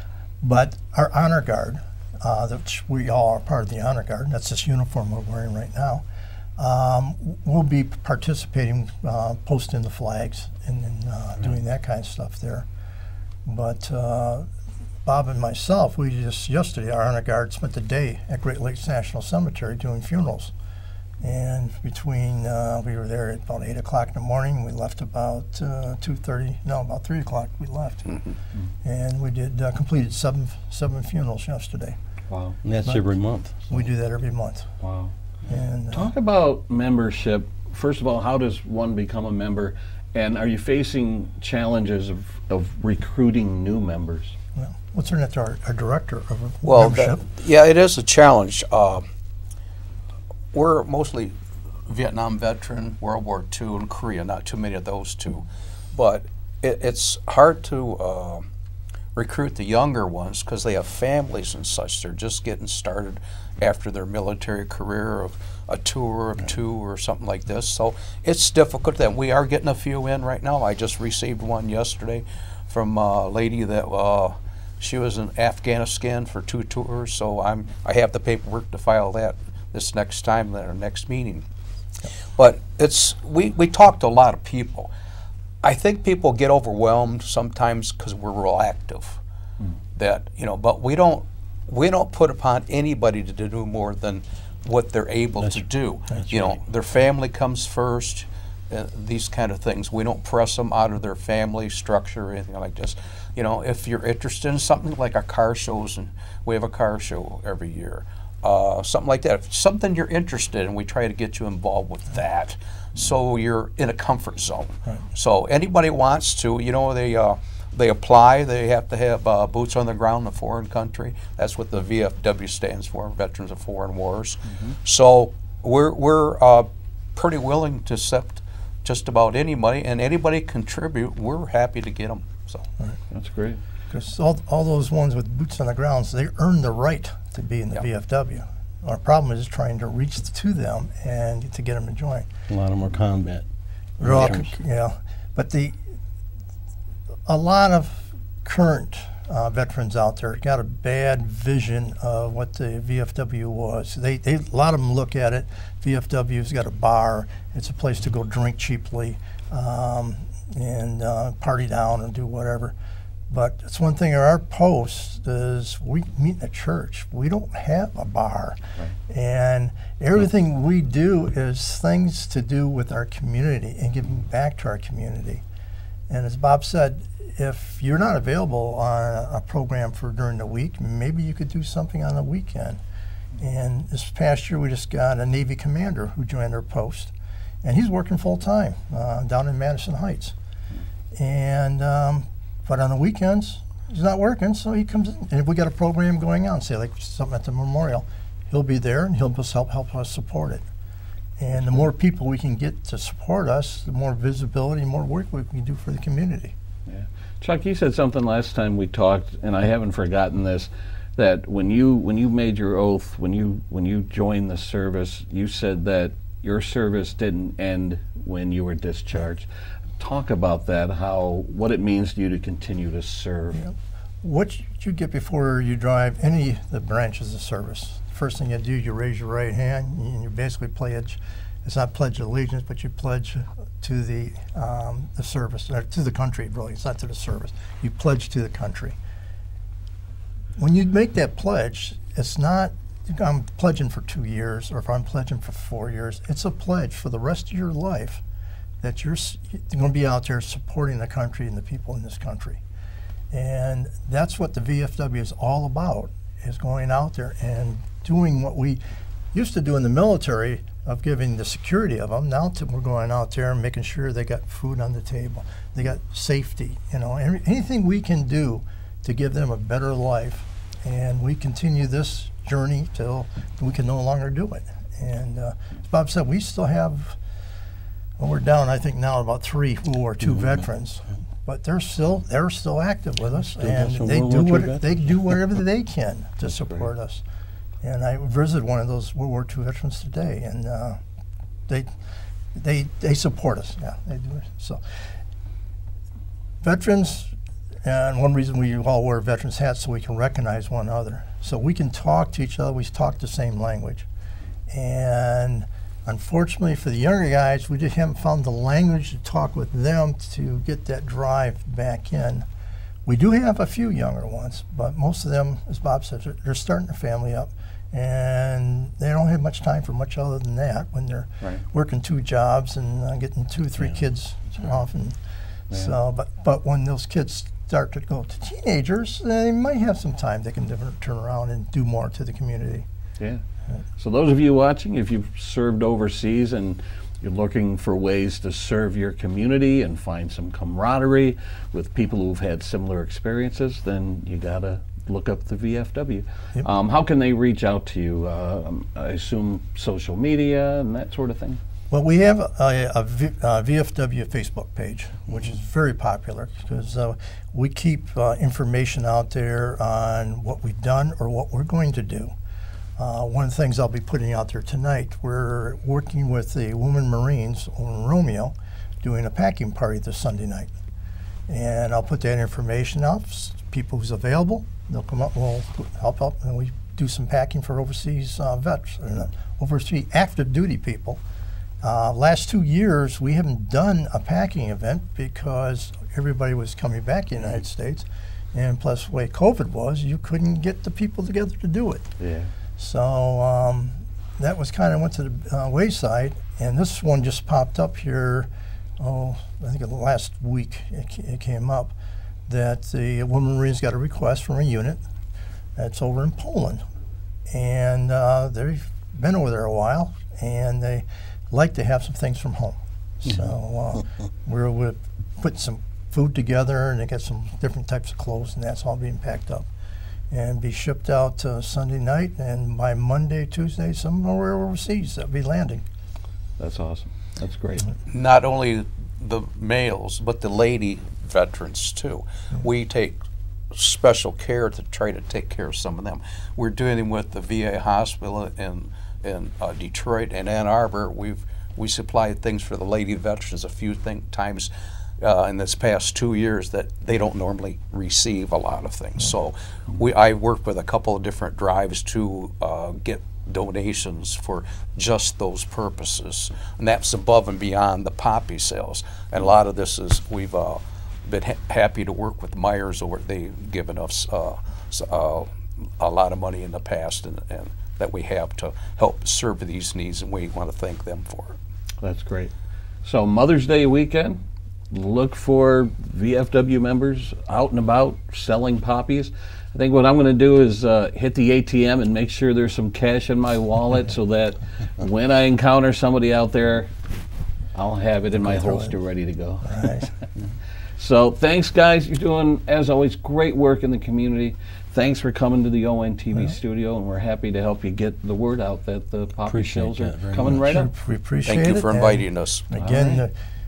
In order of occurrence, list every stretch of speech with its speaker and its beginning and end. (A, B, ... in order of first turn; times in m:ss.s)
0:00.4-0:06.0 A
0:06.6-0:12.7 A
0:13.4-0:14.5 A
0:15.0-0:20.5 A
0:21.2-0:28.2 A
0:28.8-0:32.0 A
0:32.3-0:32.6 B
0:32.6-0:33.7 C
0:33.7-0:34.7 A
0:34.8-0:35.1 B
0:35.5-0:36.1 A
0:35.9-0:44.4 B
0:44.6-0:47.2 A
0:46.6-0:49.0 D
0:50.5-0:58.4 D
0:59.2-1:21.5 D
1:22.4-1:24.9 D
1:25.6-1:29.2 D
1:30.0-2:12.6 D
1:35.4-1:36.6 C
2:13.1-2:13.6 B
2:13.9-2:22.3 A
2:22.5-2:23.5 C
2:24.0-2:24.5 C
2:24.0-2:25.8 A
2:27.3-2:42.8 A
2:43.3-2:55.4 A
2:56.1-3:02.8 A
3:03.4-3:10.4 A
3:11.2-3:20.6 A
3:21.4-3:26.5 A
3:26.9-3:39.5 B
3:40.0-3:43.6 B
3:43.5-3:59.0 A
4:00.6-4:08.2 A
4:08.8-4:12.6 A
4:13.3-4:18.8 A
4:19.3-4:37.2 A
4:38.2-4:47.2 A
4:43.4-4:45.4 C
4:47.8-4:51.0 A
4:52.6-4:54.8 A
4:56.6-4:57.3 A
4:57.8-5:04.1 A
5:04.7-5:12.4 A
5:13.1-5:25.2 A
5:25.7-5:32.8 A
5:34.0-5:51.6 B
5:51.9-6:02.3 A
6:03.0-6:10.7 A
6:11.5-6:21.2 A
6:21.8-6:32.1 A
6:32.2-6:32.5 B
6:32.8-6:42.0 A
6:42.5-6:45.0 A
6:45.8-6:46.8 A
6:47.5-6:59.7 A
7:00.3-7:05.8 A
7:06.6-7:07.9 B
7:08.1-7:13.2 D
7:13.7-7:51.6 D
7:52.0-7:52.5 B
7:53.0-8:06.9 B
8:07.7-8:10.1 B
8:08.4-8:09.0 A
8:09.6-8:10.1 A
8:11.0-8:20.9 B
8:19.4-8:20.8 C
8:20.7-8:23.3 A
8:21.5-8:22.6 D
8:22.8-8:23.2 B